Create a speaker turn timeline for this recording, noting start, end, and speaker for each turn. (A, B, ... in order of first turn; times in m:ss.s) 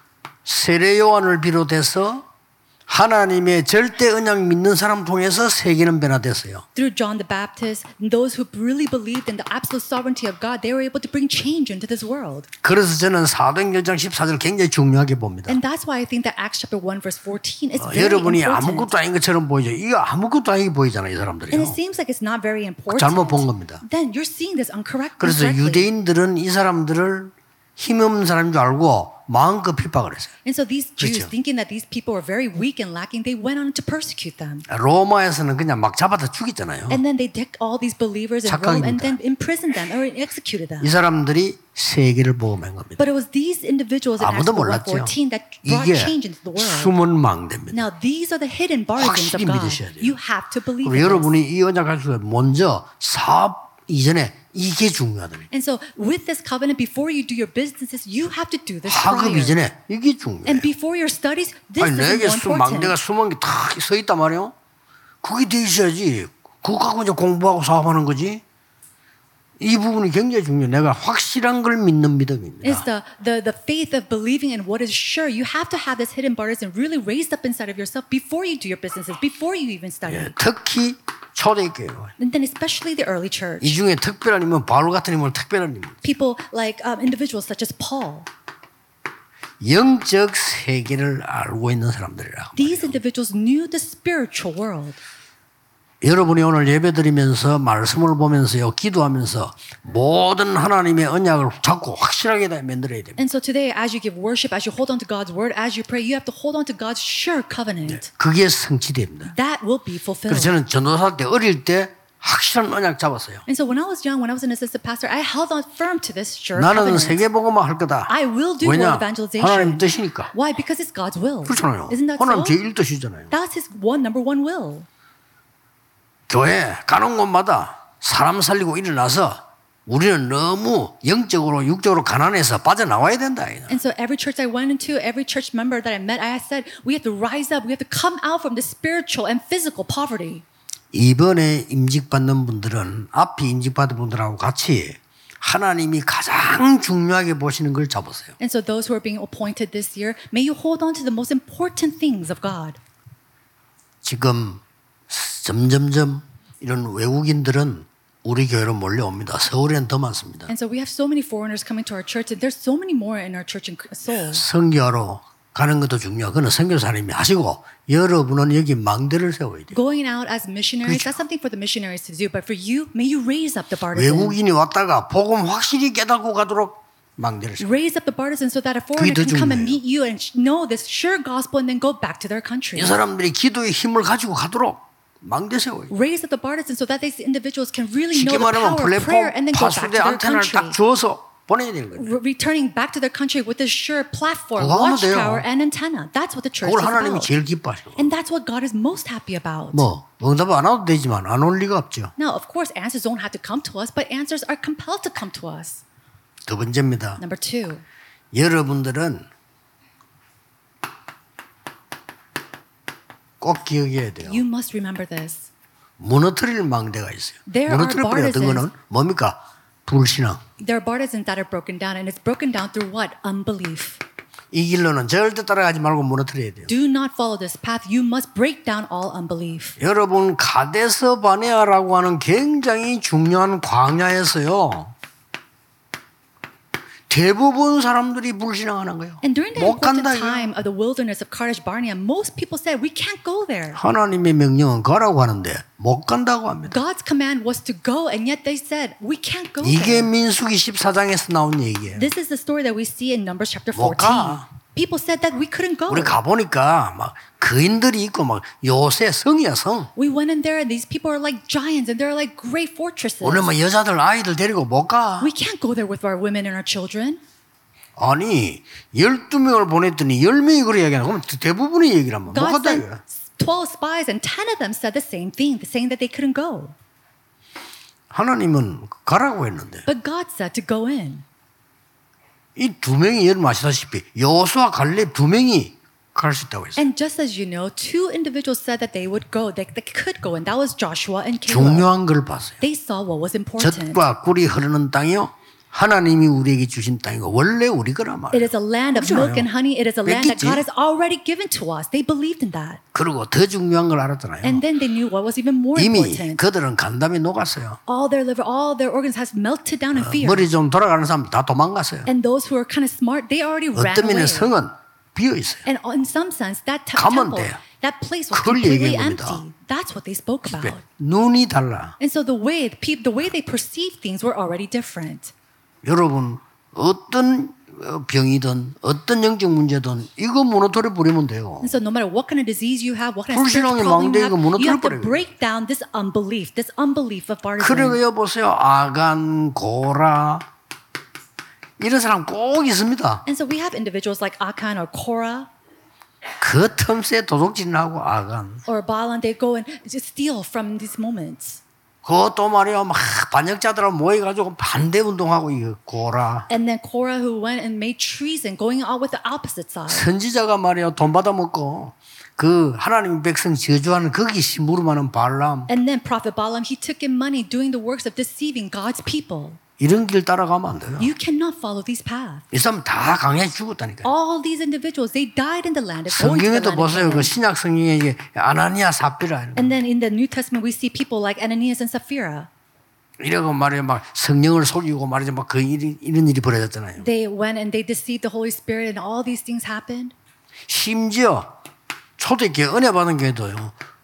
0:00.4-0:02.2 A
0:02.9-0:06.6 A
0:06.8-0:12.5 B
0:12.6-0:15.6 A
0:15.5-0:18.9 B
0:17.8-0:21.8 A
0:21.5-0:25.9 B
0:22.9-0:23.8 A
0:25.2-0:30.3 A
0:30.4-0:34.6 B
0:31.0-0:31.3 A
0:34.7-0:37.0 A
0:36.9-0:40.9 B
0:38.4-0:39.2 A
0:40.8-0:43.0 A
0:43.0-0:46.9 B
0:44.2-0:47.8 A
0:47.7-0:51.3 B
0:49.0-0:50.2 A
0:50.8-0:55.5 A
0:55.5-0:59.6 B
0:58.8-1:00.7 A
1:00.4-1:03.0 B
1:01.8-1:04.5 A
1:05.2-1:08.4 A
1:09.6-1:12.9 A
1:12.6-1:20.3 B
1:20.1-1:22.1 A
1:22.2-1:23.8 B
1:23.6-1:26.0 A
1:26.0-1:28.3 B
1:29.6-1:33.0 A
1:32.6-1:35.0 B
1:36.0-1:43.2 A
1:43.2-1:48.1 B
1:47.9-1:49.3 A
1:49.2-1:50.5 B
1:50.3-1:53.4 A
1:53.5-1:57.2 B
1:56.5-2:00.3 A
1:58.1-2:02.6 B
2:01.4-2:03.3 A
2:03.3-2:04.9 B
2:06.3-2:13.8 A
2:13.7-2:20.4 B
2:20.9-2:28.3 A
2:28.4-2:32.8 B
2:34.0-2:40.5 A
2:40.5-2:44.4 B
2:44.3-2:49.8 A
2:49.7-2:54.4 B
2:50.8-2:51.2 A
2:53.9-2:57.7 A
2:57.6-3:03.0 B
2:59.0-2:59.8 A
3:02.7-3:05.9 A
3:05.9-3:10.8 B
3:08.1-3:12.2 A
3:11.9-3:17.4 B
3:14.6-3:15.4 A
3:16.6-3:18.1 A
3:18.0-3:19.9 B
3:19.7-3:22.1 A
3:22.2-3:25.8 B
3:26.5-3:27.2 A
3:27.2-3:27.8 B
3:28.3-3:29.3 A
3:33.4-3:34.4 A
3:34.2-3:35.5 B
3:36.0-3:40.4 A
3:37.5-3:38.7 B
3:40.6-3:44.0 B
3:44.5-3:46.7 A
3:46.7-3:49.8 B
3:49.8-3:54.9 A
3:57.1-4:00.5 A
3:59.2-4:03.8 B
4:03.7-4:06.8 A
4:06.7-4:10.1 B
4:09.6-4:12.1 A
4:11.9-4:16.2 B
4:13.7-4:14.5 A
4:15.9-4:19.9 A
4:20.0-4:23.5 B
4:23.2-4:25.3 A
4:25.2-4:27.2 B
4:28.0-4:33.0 A
4:32.3-4:36.8 B
4:38.1-4:39.9 A
4:39.9-4:41.2 B
4:42.6-4:46.8 A
4:46.8-4:51.9 B
4:51.5-4:52.6 A
4:52.6-4:54.0 B
4:53.6-4:59.5 A
4:58.3-5:02.8 B
5:00.0-5:00.6 A
5:02.9-5:04.6 A
5:04.4-5:06.4 B
5:05.7-5:07.8 A
5:07.9-5:10.5 B
5:10.0-5:12.1 A
5:12.0-5:14.5 B
5:13.7-5:15.6 A
5:15.6-5:20.8 B
5:16.9-5:17.6 A
5:18.3-5:19.4 A
5:20.5-5:22.0 A
5:22.0-5:25.3 B
5:25.8-5:31.8 A
5:31.6-5:38.0 B
5:33.3-5:35.2 A
5:37.6-5:40.5 A
5:41.8-5:43.2 A
5:43.2-5:45.5 B
5:46.4-5:48.6 A
5:48.6-5:51.6 B
5:52.0-5:56.5 A
5:56.5-6:00.1 B
5:59.9-6:05.7 A
6:05.7-6:09.6 B
6:09.8-6:11.1 A
6:11.0-6:12.4 B
6:12.5-6:14.1 A
6:14.0-6:17.3 B
6:16.1-6:19.8 A
6:19.6-6:22.5 B
6:23.2-6:27.1 A
6:27.0-6:30.1 B
6:30.7-6:31.5 A
6:32.2-6:33.7 A